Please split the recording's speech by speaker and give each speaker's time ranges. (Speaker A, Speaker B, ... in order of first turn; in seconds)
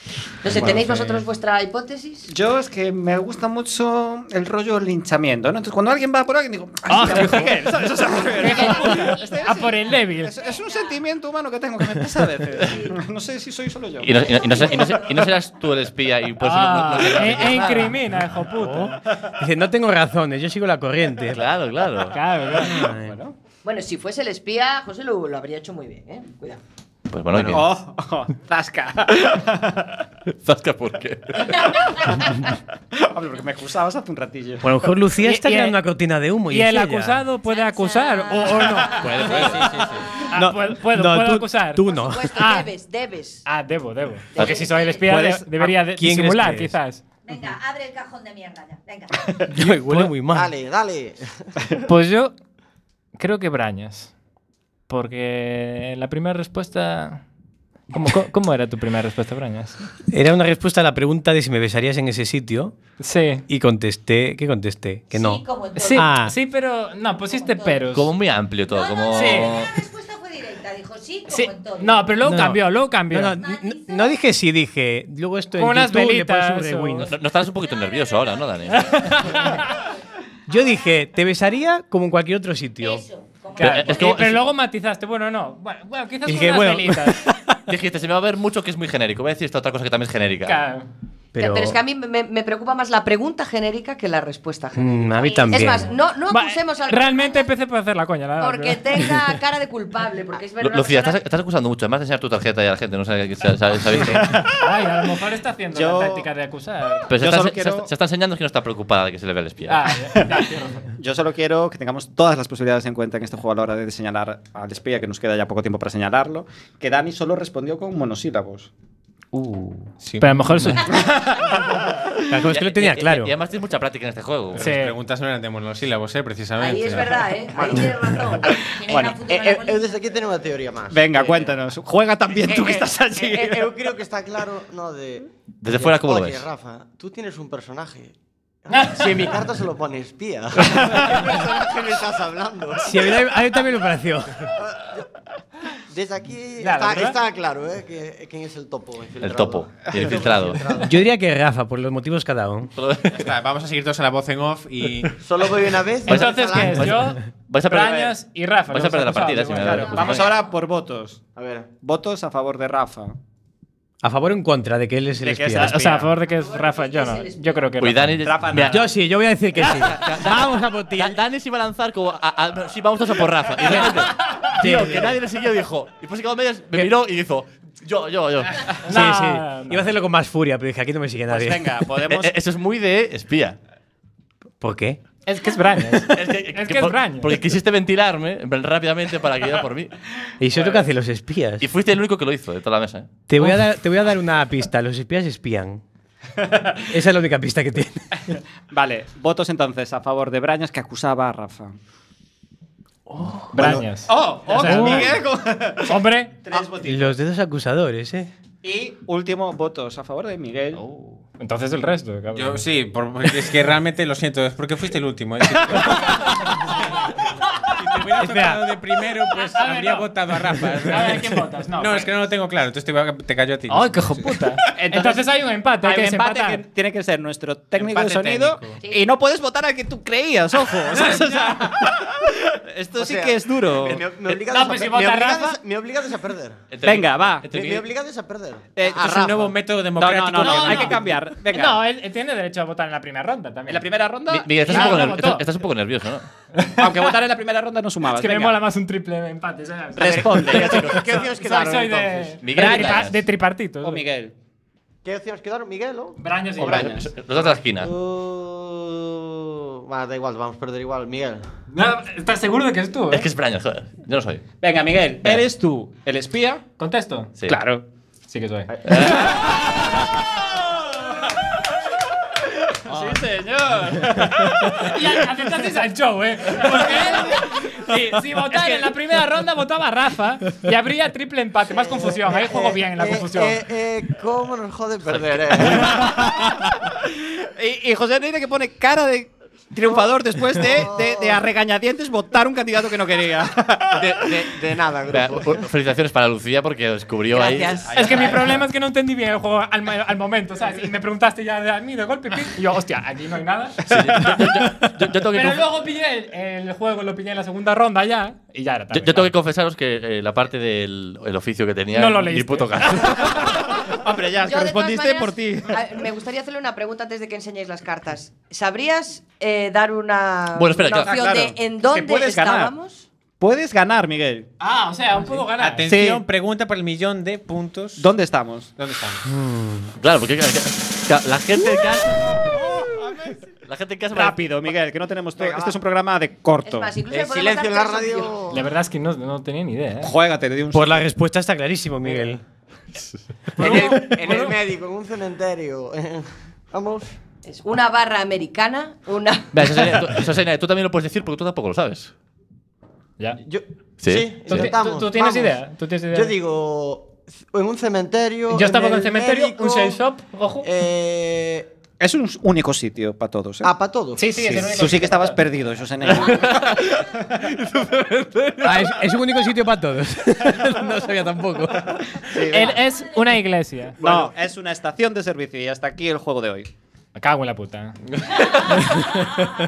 Speaker A: 0.4-2.3, 23.6-26.6, 41.9-43.4, 44.3-45.0, 91.4-97.5, 98.4-101.2, 126.6-128.6, 132.5-132.8, 166.2-167.6, 297.3-298.5, 314.4-323.1, 336.6-338.5, 347.4-350.1
Speaker B: 0.5-1.2, 39.4-40.0, 120.0-120.7, 124.5-127.3, 153.1-155.2, 212.3-216.6, 217.8-224.3, 227.7-228.8, 238.8-241.0, 298.0-298.4, 325.5-328.1, 328.8-329.2
Speaker C: 0.6-1.2, 2.3-14.6, 22.6-23.3, 27.3-30.0, 32.9-34.7, 45.0-45.8, 104.1-104.4, 105.7-106.3, 107.1-107.9, 111.0-118.7, 128.4-129.3, 130.9-133.6, 159.6-161.2, 161.8-163.2, 165.2-166.1, 168.2-168.9, 181.3-182.3, 190.5-190.8, 196.4-196.7, 198.7-201.8, 203.6-207.2, 208.6-210.8, 224.7-225.2, 225.8-234.0, 236.8-237.4, 238.8-241.8, 243.7-245.0, 246.8-248.6, 249.9-252.0, 253.8-254.3, 256.6-257.1, 264.6-266.6, 272.9-275.1, 276.6-278.9, 286.9-294.3, 313.4-315.9, 320.9-322.7, 323.4-324.5, 325.8-326.2, 328.0-328.7, 332.8-333.3, 334.1-336.9, 340.0-341.1, 362.0-363.7, 364.7-367.0, 372.2-372.8, 374.0-376.7
Speaker D: 6.9-7.6, 8.3-10.4, 16.4-19.0, 22.1-22.9, 35.2-35.8, 36.5-39.5, 40.3-42.7, 43.4-47.0, 51.9-52.3, 53.1-54.1, 54.9-57.2, 57.9-59.8, 63.0-63.4, 65.8-68.1, 69.1-69.6, 71.3-73.3, 75.5-77.1, 78.8-79.7, 83.5-87.2, 90.4-90.9, 96.2-99.2, 104.5-107.1, 109.7-110.9, 119.3-121.9, 124.6-124.9, 138.7-139.3, 146.6-147.2, 156.0-160.2, 165.5-168.2, 173.6-174.6, 178.8-179.9, 185.2-187.4, 203.5-205.2, 205.8-206.5, 210.7-212.6, 219.3-222.2, 223.7-226.6, 231.0-231.6, 234.3-235.6, 240.4-243.9, 244.6-245.5, 246.6-247.0, 248.1-254.0, 256.2-257.0, 261.7-263.3, 266.8-269.9, 274.6-283.6, 297.9-304.2, 305.2-309.3, 311.9-313.6, 324.6-326.0, 338.5-340.1, 343.6-344.6, 354.5-356.4, 358.5-360.7, 364.1-365.4, 372.5-374.2, 377.1-377.9
Speaker E: 8.4-9.7, 10.3-11.0, 12.7-12.9, 14.7-15.1, 37.4-40.2, 44.7-45.0, 47.2-49.3, 65.1-66.1, 67.3-67.9, 68.7-72.0, 73.3-74.2, 77.6-79.9, 82.8-84.2, 95.2-95.7, 128.6-129.9, 228.8-229.1
Speaker F: 14.0-18.0, 21.3-22.2, 27.1-27.7, 30.3-31.8, 39.0-39.8, 67.9-69.7, 77.0-79.4, 83.6-84.5, 87.7-90.6, 100.6-104.4, 107.1-109.9, 122.5-124.6, 135.6-136.5, 149.2-150.6, 152.7-153.3, 156.1-158.1, 158.7-160.3, 167.8-168.8, 169.8-170.4, 170.9-178.7, 182.1-183.6, 186.1-189.9, 191.6-193.1, 236.7-237.8, 244.3-246.3, 250.4-251.0, 252.4-253.2, 256.6-257.9, 263.1-264.4, 268.8-269.5, 285.1-285.8, 294.0-294.5, 295.1-298.0, 303.8-305.7, 308.9-313.7, 320.5-321.1, 330.0-332.4, 333.6-334.6, 349.5-352.1, 354.0-354.7, 366.2-366.9, 367.4-368.9
Speaker G: 18.5-21.4, 22.7-23.1, 34.6-37.2, 40.3-42.3, 46.0-46.8, 49.5-50.5, 60.1-62.7, 63.5-65.4, 65.9-66.3, 72.2-77.1, 80.5-83.0, 86.2-87.5, 91.3-91.8, 94.7-95.9, 122.3-123.3, 142.8-144.5, 150.8-152.7, 164.0-165.9, 168.7-171.2, 174.6-175.2, 178.9-181.8, 184.6-185.0, 190.4-191.7, 193.3-195.8, 196.9-198.1, 203.1-203.8, 204.6-205.2, 206.8-208.3, 218.2-218.6, 329.4-329.8, 340.7-342.4, 368.6-372.3
Speaker H: 49.9-51.8, 127.5-127.9, 129.3-131.5, 133.2-138.1, 138.6-143.0, 144.5-145.1, 145.9-151.0, 155.2-157.1, 161.3-161.7, 232.9-236.6, 237.5-238.8, 250.9-252.3, 255.0-261.4, 281.7-286.3, 290.6-291.4, 294.0-295.7, 335.4-335.8, 337.1-338.6, 343.6-347.1, 353.4-360.0, 360.6-361.7, 363.6-364.8